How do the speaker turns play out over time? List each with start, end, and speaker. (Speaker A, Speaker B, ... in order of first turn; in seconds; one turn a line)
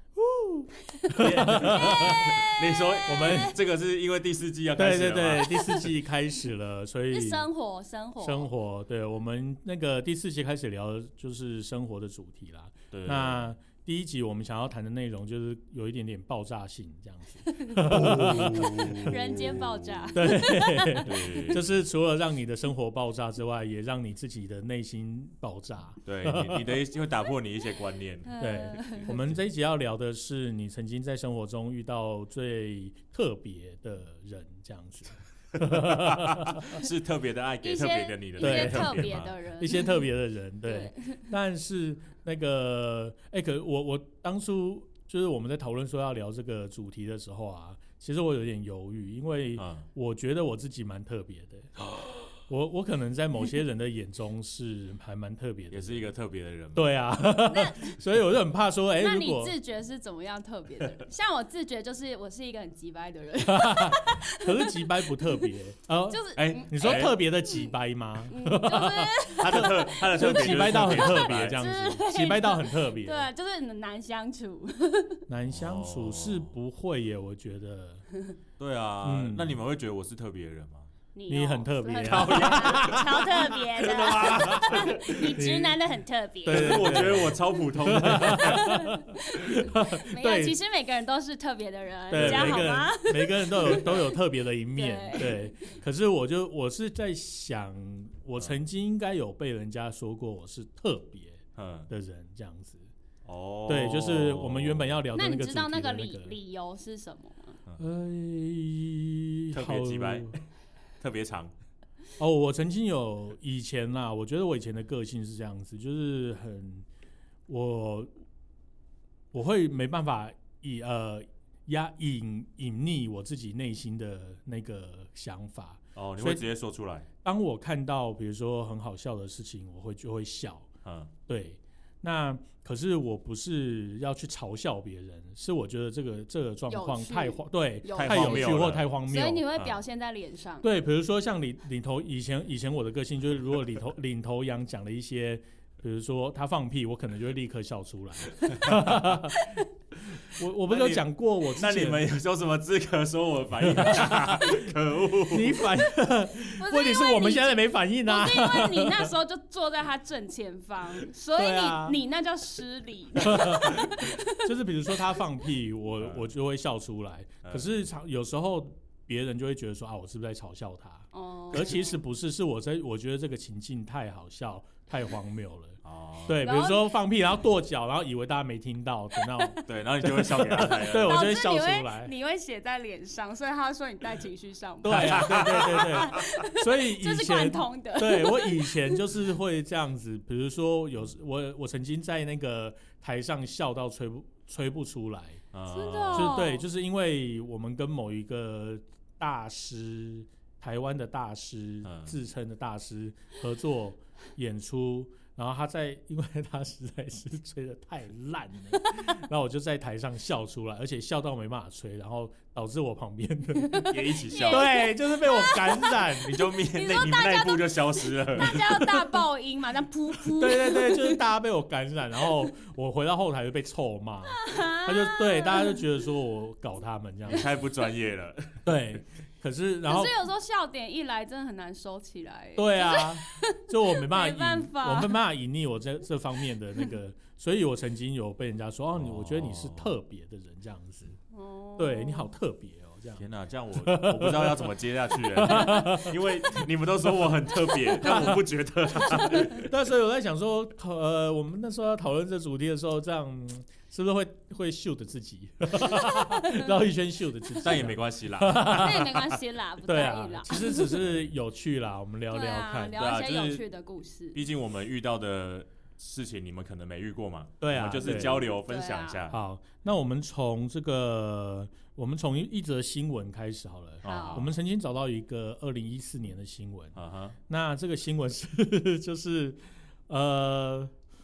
Speaker A: 0.2-2.4
Speaker B: 1.2-5.9
Speaker C: 1.4-3.6
Speaker A: 3.1-3.6
Speaker A: 4.8-7.5
Speaker C: 7.1-8.5
Speaker A: 8.2-19.1
Speaker B: 12.9-13.4
Speaker C: 17.5-21.5
Speaker B: 17.9-20.1
Speaker A: 20.1-26.7
Speaker B: 21.1-21.7
Speaker B: 26.1-28.3
Speaker C: 28.2-29.1
Speaker A: 28.4-36.8
Speaker B: 29.0-29.4
Speaker B: 35.7-39.3
Speaker C: 37.6-40.0
Speaker A: 38.4-56.1
Speaker C: 40.7-41.3
Speaker B: 49.6-49.8
Speaker B: 55.7-56.9
Speaker A: 56.7-59.5
Speaker C: 57.5-57.9
Speaker C: 59.0-65.5
Speaker A: 63.5-73.3
Speaker C: 66.1-67.8
Speaker B: 66.3-67.2
Speaker C: 68.3-75.2
Speaker B: 69.3-72.0
Speaker A: 75.3-78.0
Speaker B: 75.5-76.5
Speaker B: 78.6-80.9
Speaker A: 79.0-79.6
Speaker C: 81.2-87.3
Speaker A: 81.3-85.8
Speaker B: 82.0-83.3
Speaker B: 84.0-84.9
Speaker A: 86.5-90.6
Speaker B: 86.5-88.7
Speaker C: 88.2-94.2
Speaker A: 92.1-102.9
Speaker B: 92.1-92.7
Speaker C: 94.8-95.7
Speaker B: 101.6-101.9
Speaker B: 103.2-104.9
Speaker A: 103.7-106.4
Speaker C: 105.2-107.6
Speaker A: 107.8-110.4
Speaker B: 109.5-110.4
Speaker B: 111.0-111.5
Speaker A: 112.2-116.9
Speaker A: 117.5-118.1
Speaker A: 119.3-126.5
Speaker B: 126.0-127.1
Speaker A: 127.2-130.7
Speaker B: 130.8-131.1
Speaker A: 131.3-139.4
Speaker C: 136.7-140.7
Speaker B: 137.9-138.9
Speaker A: 140.6-149.4
Speaker A: 150.3-152.1
Speaker B: 150.7-155.7
Speaker A: 153.7-154.7
Speaker A: 155.3-159.1
Speaker C: 156.6-164.5
Speaker A: 161.4-162.0
Speaker A: 163.2-182.1
Speaker B: 167.4-167.8
Speaker C: 171.1-171.9
Speaker B: 175.8-176.4
Speaker C: 176.4-177.0
Speaker C: 179.2-179.5
Speaker B: 179.7-181.2
Speaker C: 180.6-189.0
Speaker A: 184.8-195.4
Speaker B: 184.9-186.3
Speaker B: 195.5-196.4
Speaker C: 195.7-196.7
Speaker A: 196.1-216.4
Speaker B: 201.8-202.2
Speaker B: 213.8-214.7
Speaker C: 213.8-221.2
Speaker B: 216.1-218.7
Speaker A: 218.5-219.0
Speaker A: 220.3-227.5
Speaker C: 224.4-225.8
Speaker B: 227.3-228.6
Speaker A: 228.7-230.1
Speaker C: 229.9-235.2
Speaker A: 232.6-241.2
Speaker B: 238.9-239.9
Speaker C: 241.3-242.3
Speaker A: 241.8-243.2
Speaker B: 243.2-249.7
Speaker A: 243.8-246.7
Speaker A: 248.0-248.4
Speaker A: 248.9-259.2
Speaker C: 248.9-249.5
Speaker C: 255.8-256.6
Speaker B: 257.6-259.4
Speaker C: 258.6-261.0
Speaker A: 259.9-263.0
Speaker B: 260.9-261.2
Speaker C: 262.3-264.4
Speaker B: 262.9-263.6
Speaker B: 264.3-269.4
Speaker A: 267.6-268.5
Speaker C: 268.1-269.3
Speaker A: 269.3-276.9
Speaker B: 274.0-274.5
Speaker C: 274.1-274.5
Speaker B: 277.0-277.4
Speaker A: 277.5-280.9